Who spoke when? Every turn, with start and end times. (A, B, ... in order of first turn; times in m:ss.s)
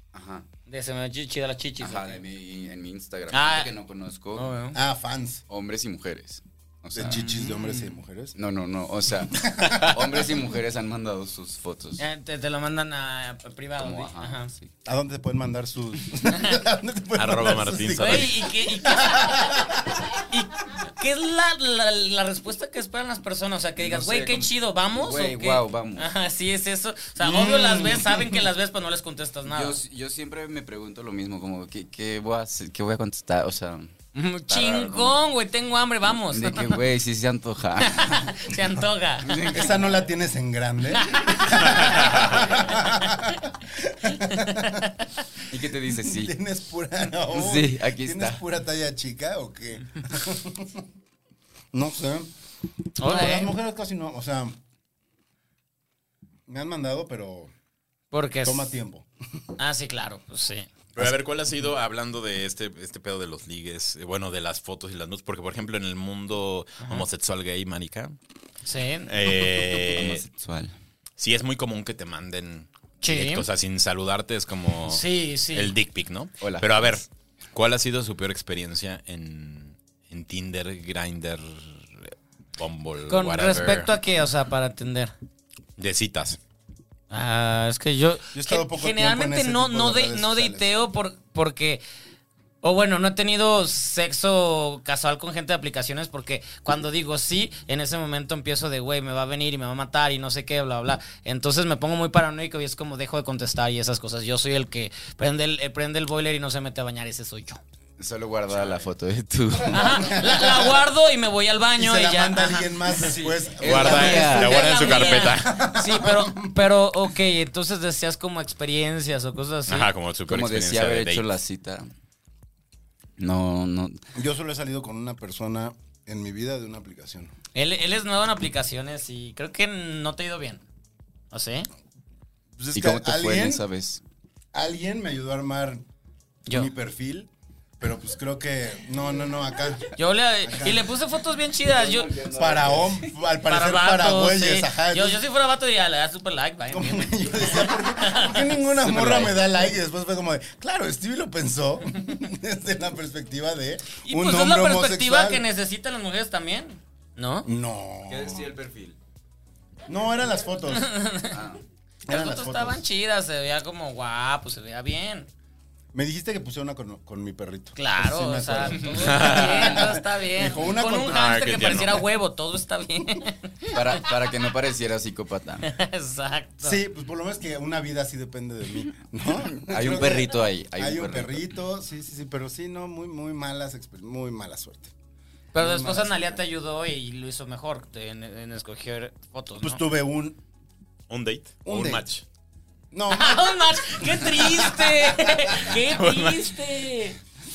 0:00.1-0:00.5 A
0:00.7-0:02.2 B
0:01.8-0:04.5 A
0:03.3-0:03.7 B
0:04.4-0:04.8 B
0:04.7-0:05.4 C
0:05.5-0:07.3 A
0:06.9-0:08.4 C
0:07.0-0:08.0 B
0:08.4-0:12.0 A
0:09.4-0:10.3 C
0:12.0-0:14.5 B
0:13.8-0:14.7 A
0:14.8-0:20.2 C
0:16.3-0:16.6 B
0:17.2-0:18.3 D
0:18.0-0:29.8 B
0:23.8-0:26.1 A
0:27.2-0:28.5 C
0:29.5-0:33.9 A
0:34.1-0:36.8 B
0:34.5-0:35.2 A
0:36.3-0:38.5 A
0:37.8-0:39.7 B
0:39.2-0:40.0 A
0:39.5-0:44.9 C
0:41.0-0:42.4 B
0:42.0-0:42.4 D
0:42.9-0:43.4 B
0:44.0-0:45.2 B
0:45.5-0:46.3 A
0:45.9-0:50.8 C
0:47.3-0:48.4 A
0:51.7-0:52.3 C
0:53.0-0:53.5 B
0:53.0-0:54.6 C
0:56.5-0:57.5 C
0:58.1-0:58.8 B
0:58.4-0:59.1 C
0:59.6-1:00.7 B
1:01.0-1:08.2 D
1:06.8-1:07.1 B
1:08.7-1:09.1 B
1:09.1-1:10.2 D
1:09.9-1:10.8 A
1:11.2-1:23.9 D
1:13.0-1:13.5 B
1:14.9-1:15.7 B
1:16.4-1:16.9 A
1:23.1-1:25.2 B
1:25.8-1:26.4 D
1:27.1-1:31.8 B
1:28.3-1:30.8 C
1:32.6-1:47.6 B
1:48.0-1:50.2 A
1:48.5-1:48.9 D
1:49.7-1:52.7 B
1:49.8-1:50.8 C
1:51.8-1:56.6 C
1:53.0-1:54.9 A
1:53.6-1:55.7 D
1:54.0-1:59.9 B
1:59.7-2:01.3 D
2:00.3-2:01.9 A
2:03.2-2:04.0 A
2:04.2-2:07.3 C
2:07.6-2:10.6 B
2:11.3-2:11.7 B
2:12.6-2:13.6 C
2:12.7-2:14.0 A
2:14.5-2:15.8 C
2:16.5-2:19.9 C
2:20.0-2:22.1 B
2:20.4-2:20.9 C
2:21.6-2:23.1 A
2:22.3-2:25.2 C
2:23.4-2:28.6 B
2:26.7-2:35.4 C
2:28.6-2:29.5 A
2:34.0-2:37.5 B
2:37.4-2:38.5 C
2:38.1-2:39.0 A
2:39.9-2:40.9 C
2:40.7-2:41.4 B
2:41.3-2:41.6 A
2:42.1-2:42.8 C
2:42.1-2:45.3 B
2:45.9-2:51.4 C
2:47.8-2:53.8 B
2:49.0-2:49.8 D
2:51.1-2:52.0 D
2:53.7-2:55.7 A
2:55.7-2:56.8 B
2:56.6-3:04.9 C
2:59.3-3:01.5 A
3:05.5-3:09.8 B
3:05.6-3:06.4 C
3:09.6-3:10.4 C
3:11.1-3:12.2 D
3:11.6-3:12.0 C
3:12.9-3:15.6 C
3:13.1-3:17.2 B
3:15.6-3:16.6 D